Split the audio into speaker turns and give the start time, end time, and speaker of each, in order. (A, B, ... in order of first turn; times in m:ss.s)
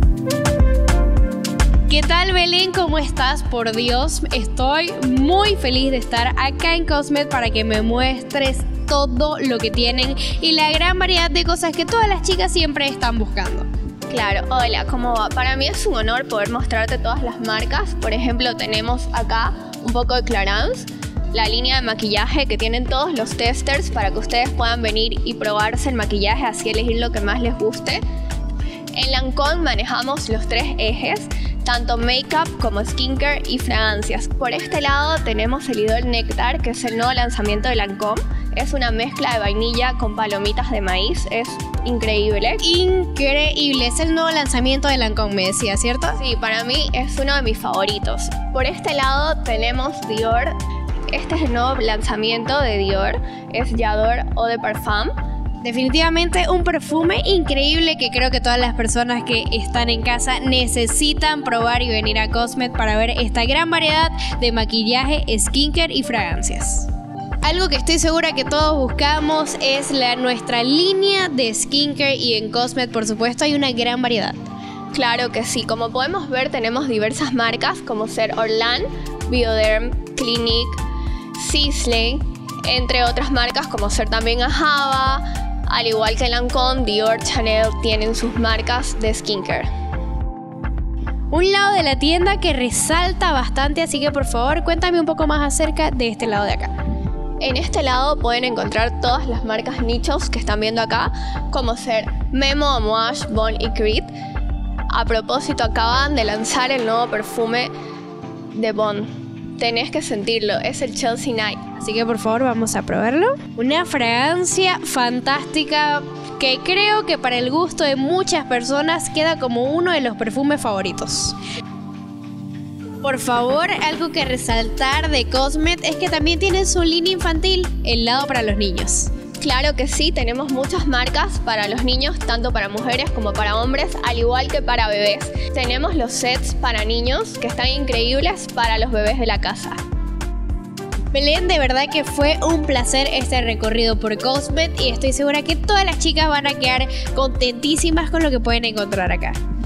0:01.9-0:13.7 A
0:14.1-0:28.0 B
0:29.0-0:42.6 B
0:42.6-0:46.2 A
0:46.2-0:50.5 B
0:51.1-0:55.1 B
0:55.6-1:06.9 A
1:07.4-1:14.4 A
1:14.9-1:20.8 B
1:21.3-1:29.7 B
1:31.3-1:36.7 A
1:37.4-1:44.1 B
1:44.9-1:47.7 B
1:48.5-1:51.6 B
1:51.8-2:01.4 A
2:03.0-2:09.1 A
2:09.4-2:19.8 B
2:21.1-2:29.4 A